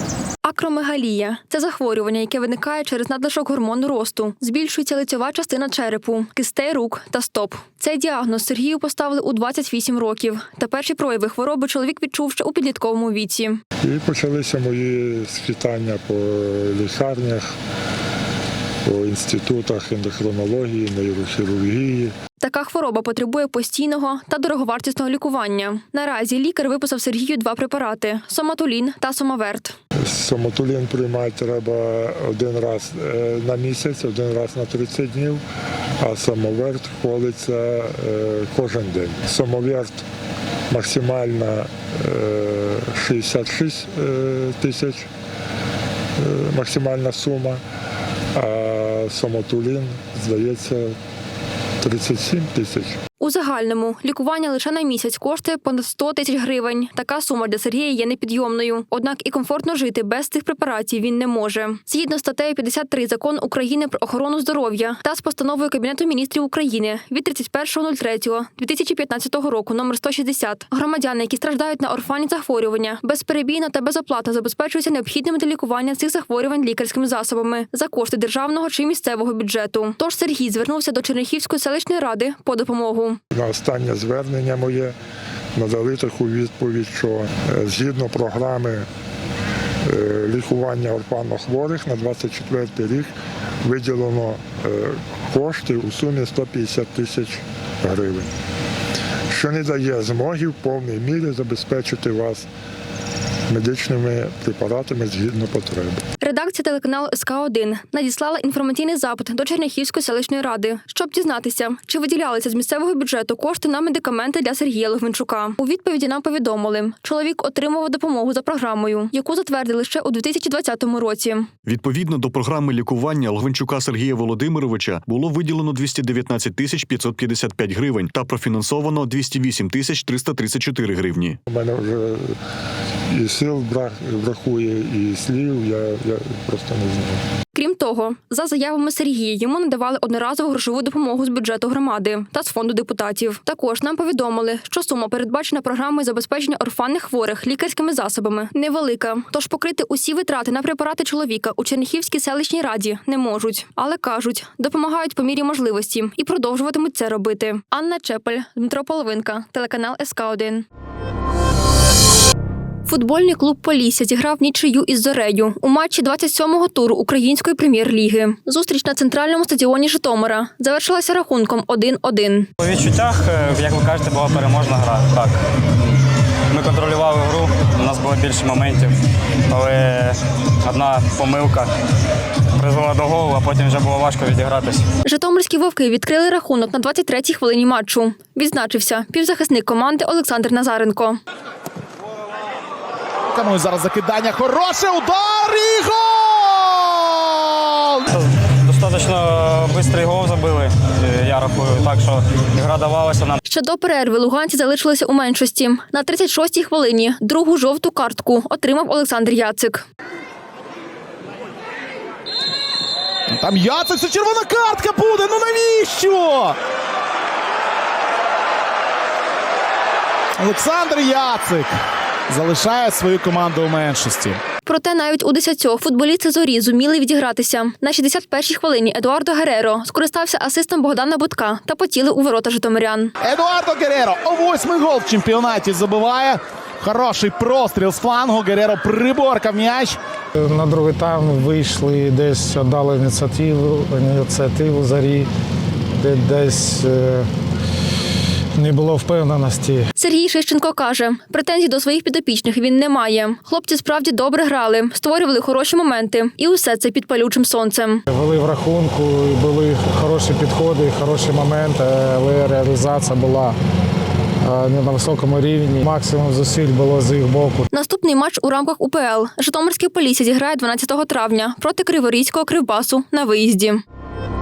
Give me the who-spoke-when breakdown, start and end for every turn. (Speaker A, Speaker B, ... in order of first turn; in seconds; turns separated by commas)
Speaker A: 0.4-13.6, Speaker B: 13.8-17.5, Speaker B: 18.9-22.1, Speaker A: 22.4-29.8, Speaker B: 30.0-35.4, Speaker B: 36.0-40.0, Speaker B: 40.7-45.1, Speaker B: 46.2-47.6, Speaker B: 48.4-51.0, Speaker B: 51.8-53.0, Speaker A: 53.2-83.2, Speaker B: 83.3-85.0, Speaker B: 85.6-88.9, Speaker B: 89.8-93.1, Speaker B: 93.6-98.3, Speaker B: 99.3-102.5, Speaker B: 103.5-106.0, Speaker A: 106.2-121.5, Speaker C: 121.6-131.4, Speaker B: 131.5-132.4, Speaker B: 133.1-137.2, Speaker A: 137.5-160.7, Speaker A: 162.9-172.5, Speaker D: 172.6-175.4, Speaker D: 176.5-178.9, Speaker D: 179.5-181.7, Speaker D: 182.6-184.9, Speaker A: 185.1-191.2, Speaker E: 193.3-198.0, Speaker D: 198.1-203.4, Speaker A: 203.5-209.9, Speaker E: 213.3-216.6, Speaker E: 220.4-224.4, Speaker A: 224.7-233.1, Speaker E: 233.2-240.0, Speaker F: 240.4-245.2, Speaker F: 246.0-247.2, Speaker F: 248.6-249.8, Speaker A: 250.0-258.0, Speaker F: 258.1-263.6, Speaker F: 264.5-267.6, Speaker A: 267.7-273.8